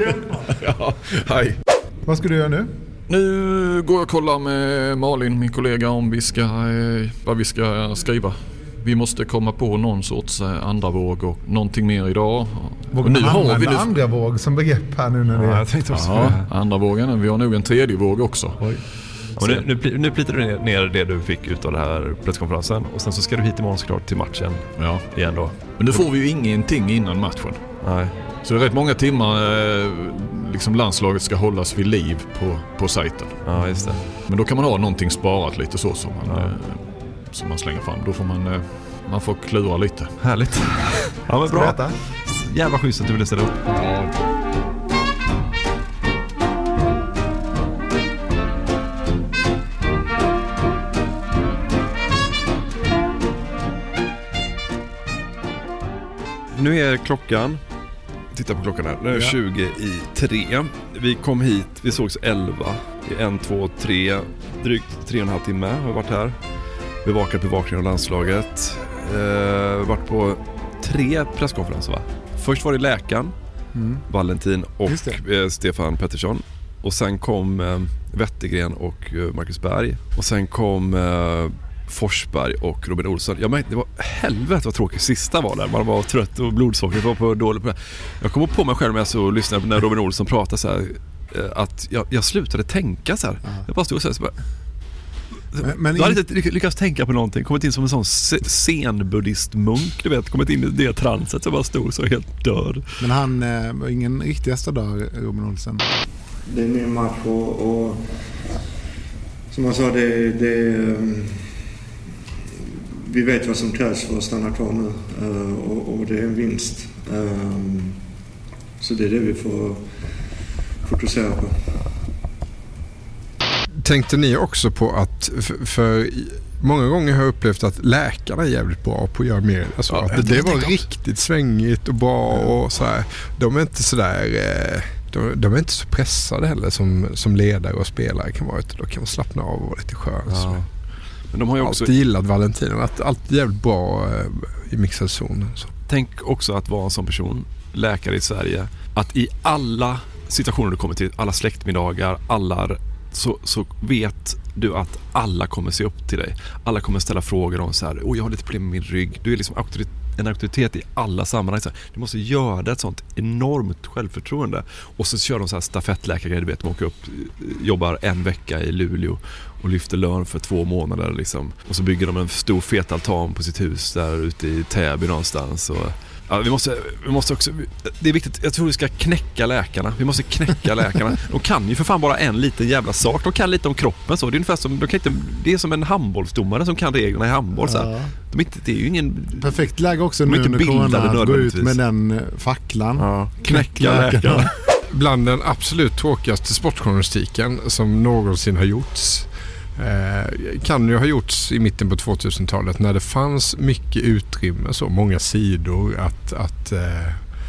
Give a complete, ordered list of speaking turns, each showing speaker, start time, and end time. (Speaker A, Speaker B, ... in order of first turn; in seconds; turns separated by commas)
Speaker A: 0.4-1.6, Speaker B: 2.0-2.7, Speaker A: 3.1-13.9, Speaker B: 12.9-15.7, Speaker C: 15.3-16.5, Speaker A: 15.9-18.7, Speaker C: 19.4-26.0, Speaker A: 19.4-19.6, Speaker A: 24.8-25.1, Speaker A: 25.8-27.6, Speaker C: 27.8-28.1, Speaker A: 28.4-33.4, Speaker C: 33.5-34.1, Speaker A: 34.3-40.2, Speaker C: 36.2-36.5, Speaker C: 40.2-43.7, Speaker B: 41.4-42.0, Speaker A: 43.7-44.1, Speaker C: 56.5-57.6, Speaker C: 58.3-66.4, Speaker B: 59.1-59.4, Speaker C: 67.0-73.3, Speaker B: 73.7-74.0, Speaker C: 74.1-94.4, Speaker B: 74.9-75.2, Speaker C: 95.5-102.9, Speaker B: 95.6-96.2, Speaker B: 103.0-105.8, Speaker D: 106.5-108.5, Speaker D: 109.5-111.5, Speaker D: 112.7-118.0, Speaker D: 118.8-121.9, Speaker E: 123.8-140.6, Speaker A: 129.9-130.3, Speaker C: 130.1-130.8, Speaker C: 140.3-140.7, Speaker C: 141.3-141.9, Speaker E: 141.6-145.7, Speaker C: 145.9-189.7, Speaker B: 187.6-188.1, Speaker B: 189.3-194.5, Speaker C: 190.2-191.8, Speaker C: 193.0-194.5, Speaker E: 194.9-207.2